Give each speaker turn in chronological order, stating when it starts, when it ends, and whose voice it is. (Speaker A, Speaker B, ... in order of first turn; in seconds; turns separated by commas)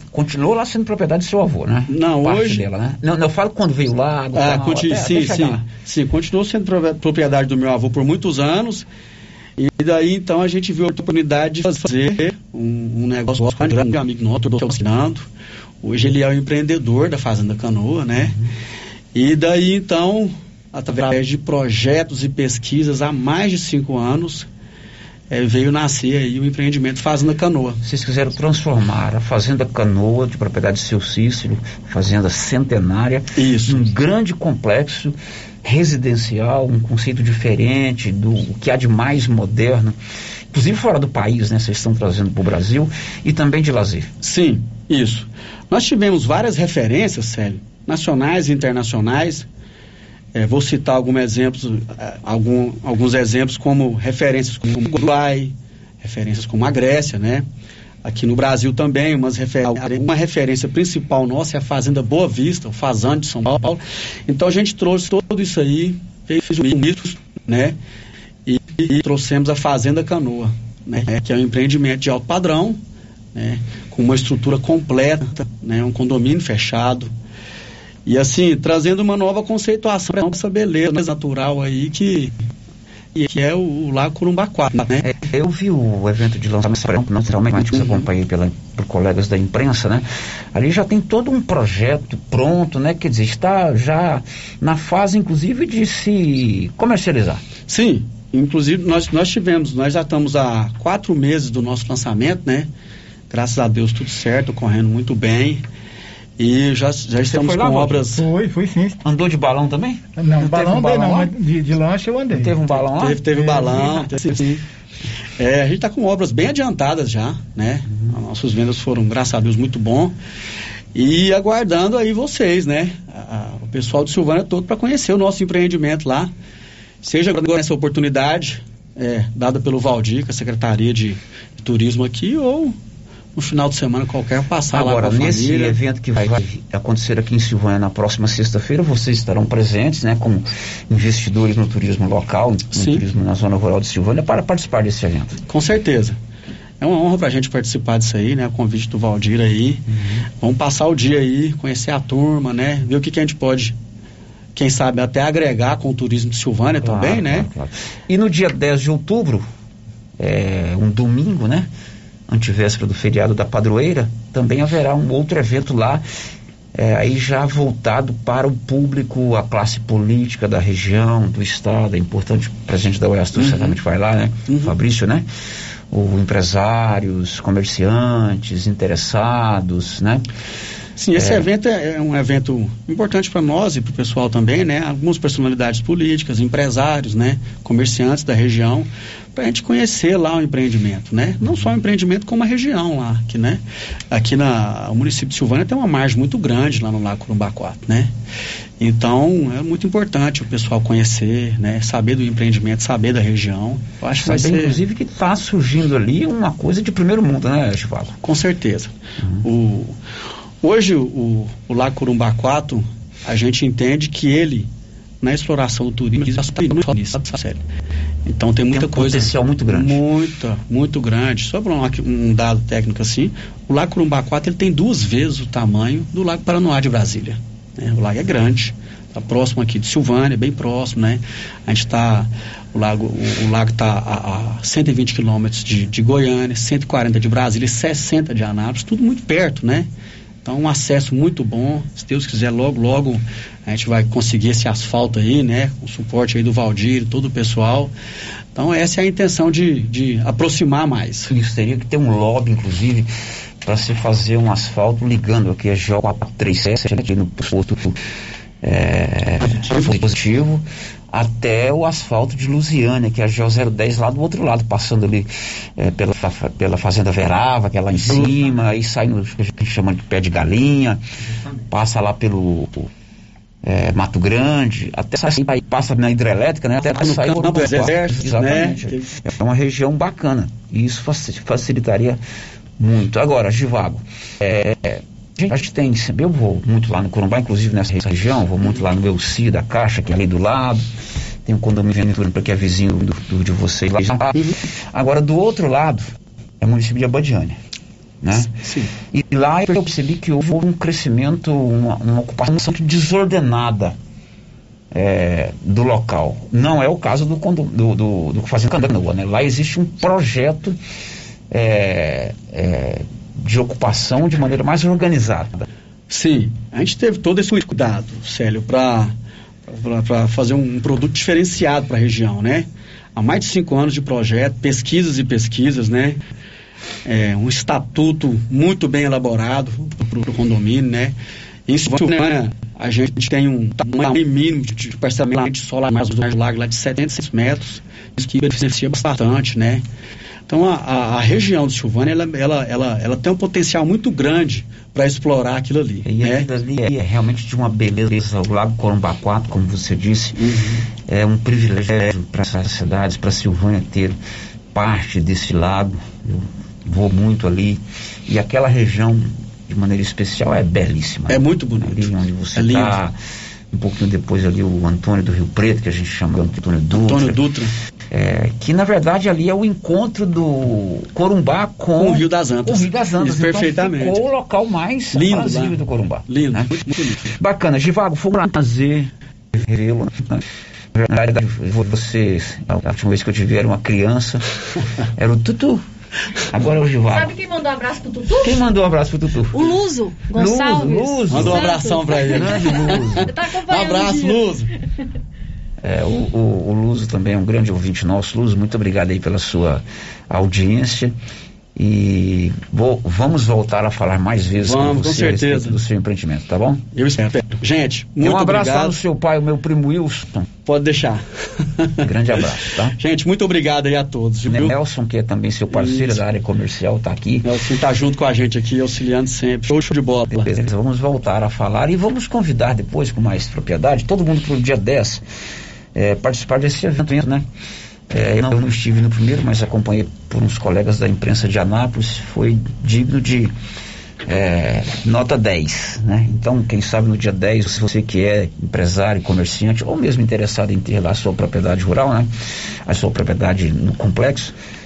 Speaker A: 0.1-5.6, Speaker B: 1.9-2.6, Speaker B: 4.3-8.8, Speaker B: 9.6-15.3, Speaker B: 15.8-18.4, Speaker B: 19.1-24.5, Speaker B: 25.3-27.8, Speaker A: 27.8-40.0, Speaker B: 33.4-33.8, Speaker A: 40.5-44.1, Speaker B: 44.2-49.5, Speaker B: 50.3-57.5, Speaker B: 58.0-67.8, Speaker B: 68.5-72.8, Speaker B: 73.3-77.1, Speaker B: 78.0-82.3, Speaker B: 83.1-85.0, Speaker A: 85.0-97.4, Speaker B: 87.6-88.1, Speaker B: 97.7-102.7, Speaker B: 103.3-105.6, Speaker B: 106.4-108.2, Speaker A: 107.3-108.0, Speaker C: 108.1-109.0, Speaker A: 109.0-111.3, Speaker C: 110.2-112.6, Speaker A: 112.3-114.1, Speaker B: 112.9-114.6, Speaker B: 115.4-120.1, Speaker B: 120.9-126.3, Speaker B: 127.0-132.7, Speaker B: 133.3-135.8, Speaker A: 134.7-145.4, Speaker B: 142.7-143.0, Speaker B: 145.5-146.2, Speaker B: 146.8-149.8, Speaker B: 150.4-153.7, Speaker B: 154.5-157.5, Speaker A: 156.8-159.5, Speaker A: 160.2-161.7, Speaker A: 162.3-166.0, Speaker A: 166.7-175.3, Speaker B: 173.3-173.8, Speaker B: 174.5-174.7, Speaker A: 175.9-180.2, Speaker B: 181.0-198.1, Speaker A: 181.1-181.4, Speaker B: 198.8-204.8, Speaker A: 204.1-208.2, Speaker B: 208.2-209.9, Speaker B: 210.6-214.7, Speaker B: 215.2-217.6, Speaker B: 218.3-239.9, Speaker A: 218.7-220.0, Speaker B: 240.4-247.9, Speaker B: 248.5-251.3, Speaker A: 251.3-253.1, Speaker A: 253.6-258.0, Speaker A: 258.6-271.0, Speaker B: 268.0-268.3, Speaker A: 271.7-272.9, Speaker A: 273.6-282.2, Speaker B: 276.9-279.1, Speaker A: 282.8-290.9, Speaker A: 291.4-296.1, Speaker A: 296.6-297.6, Speaker A: 298.2-303.9, Speaker B: 298.6-298.9, Speaker A: 304.9-310.8, Speaker A: 311.5-315.6, Speaker B: 316.1-319.1, Speaker B: 319.7-326.2, Speaker B: 327.1-331.1, Speaker B: 331.7-339.8, Speaker B: 340.5-346.5, Speaker A: 346.0-350.4, Speaker B: 350.4-350.8, Speaker A: 351.0-354.2, Speaker A: 354.7-363.1, Speaker B: 361.3-363.0, Speaker A: 363.7-367.4, Speaker B: 366.9-367.7, Speaker A: 368.1-380.4, Speaker B: 372.0-374.2, Speaker B: 375.1-375.8, Speaker B: 376.3-377.2, Speaker A: 380.9-384.4, Speaker A: 385.1-385.8, Speaker A: 386.5-387.4, Speaker D: 387.1-388.5, Speaker A: 388.4-389.7, Speaker D: 389.5-394.4, Speaker A: 390.3-393.3, Speaker B: 391.3-394.7, Speaker A: 395.8-401.1, Speaker A: 401.8-406.8, Speaker B: 404.6-405.8, Speaker B: 406.9-408.9, Speaker A: 408.2-410.5, Speaker B: 410.6-411.2, Speaker B: 411.8-412.4, Speaker A: 412.0-413.0, Speaker B: 413.0-414.7, Speaker A: 414.4-417.5, Speaker B: 415.7-416.2, Speaker B: 417.4-420.5, Speaker A: 420.3-425.2, Speaker A: 425.9-427.5, Speaker A: 428.1-433.5, Speaker A: 434.2-442.3, Speaker A: 442.9-444.5